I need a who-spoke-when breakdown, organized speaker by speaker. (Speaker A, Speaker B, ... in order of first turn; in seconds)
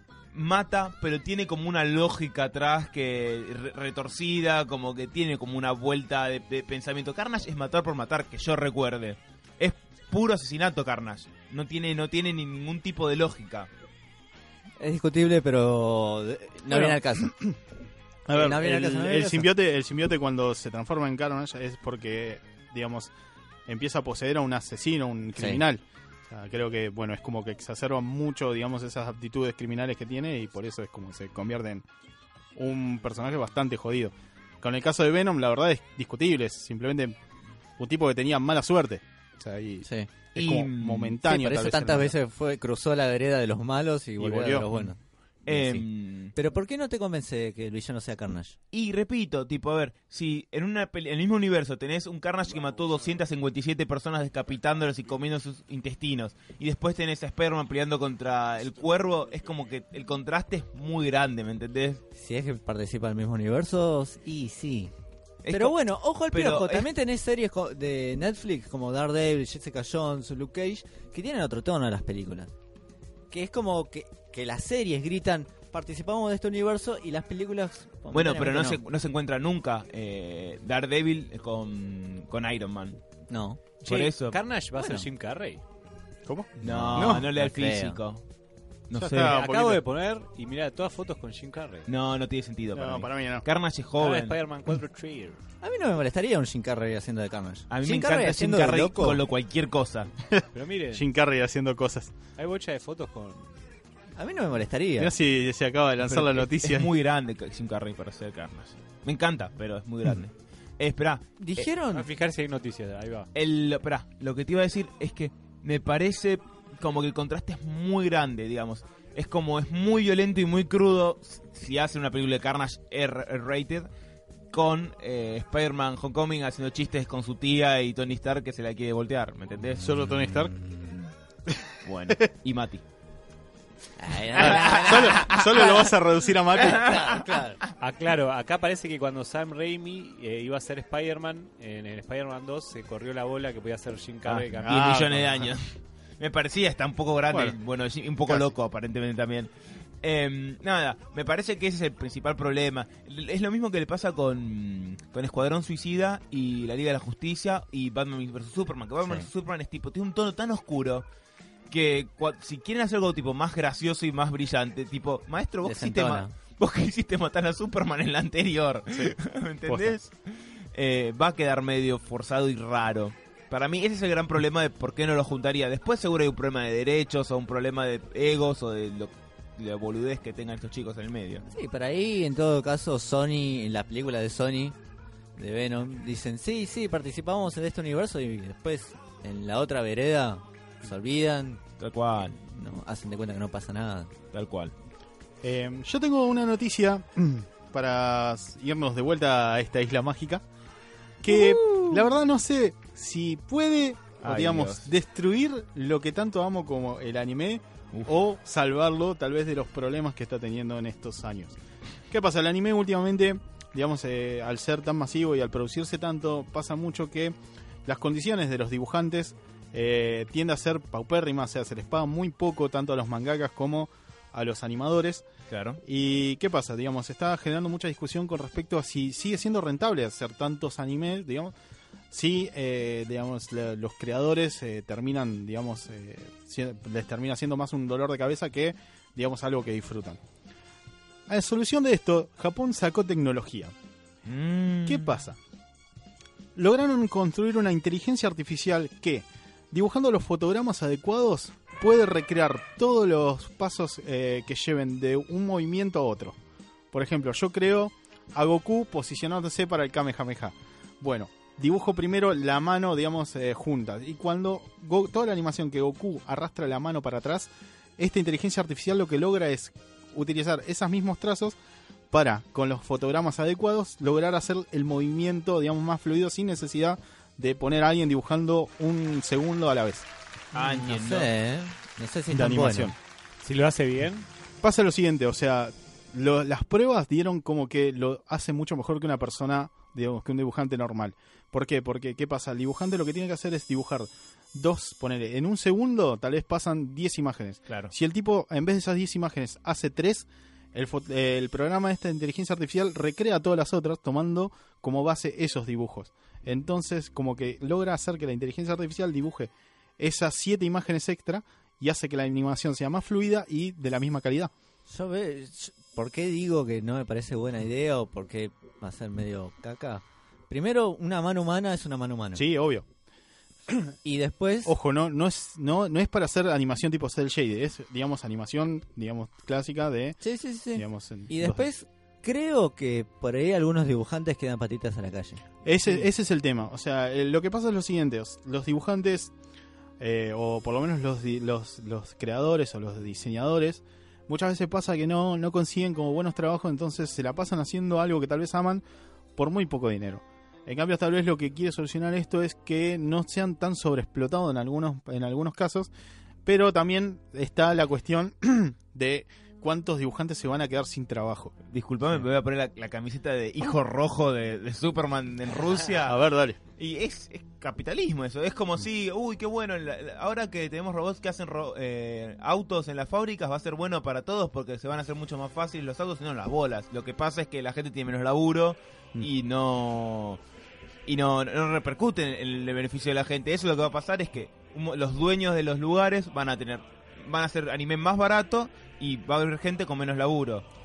Speaker A: 0.3-13.7, 40.4-41.2, 45.5-46.3, 48.7-62.0, 65.4-65.8, 66.3-66.9, 78.1-83.0, 83.8-84.4, 86.6-88.2, 88.9-89.4, 91.9-94.4, 97.7-100.1, 106.1-111.7, 113.3-123.9, 124.5-129.9, 131.8-132.8, 134.4-135.9, 136.6-137.7, 144.2-149.5, 150.0-161.1, 161.7-181.4, 191.8-192.4, 194.3-194.7, 204.2-204.9, 225.5-225.8, 244.2-245.2, 280.5-281.3, 297.7-297.9, 361.7-366.2, 366.8-380.4, 381.1-390.6
Speaker B: 14.8-17.3, 18.3-19.5, 25.4-25.6, 39.8-40.1, 41.2-48.6, 62.1-64.9, 65.5-72.5, 73.3-78.8, 83.3-83.6, 84.8-85.1, 86.6-88.0, 95.6-99.2, 104.2-105.1, 111.4-112.1, 130.0-131.1, 134.0-135.9, 136.5-137.6, 165.6-166.3, 181.5-184.8, 185.4-191.6, 192.3-194.1, 201.3-202.0, 280.5-282.9, 314.9-322.4, 324.1-324.7, 330.2-335.4
Speaker C: 16.7-17.6, 18.3-23.1, 23.7-31.9, 32.5-37.2, 37.8-42.2, 44.2-44.9, 86.3-87.3, 88.9-89.8, 92.7-93.5, 100.3-102.1, 105.0-106.9, 129.8-130.6, 131.5-132.2, 134.3-137.1, 144.6-145.5, 147.3-147.6, 169.7-170.0, 195.4-200.4, 201.2-211.6, 212.1-217.3, 217.8-225.2, 225.8-231.6, 232.1-240.2, 241.3-243.7, 244.9-245.4, 246.6-256.4, 256.9-271.6, 272.1-280.1, 282.3-282.9, 284.6-314.5, 322.4-322.9, 323.7-323.9, 324.6-330.2, 330.7-331.7, 335.6-339.3, 340.0-348.8, 349.4-355.9, 356.4-361.5, 366.0-366.6
Speaker D: 83.8-85.6, 89.2-91.9, 94.0-95.4, 100.5-101.1, 102.4-103.5, 111.9-113.3, 137.8-145.0, 283.4-284.3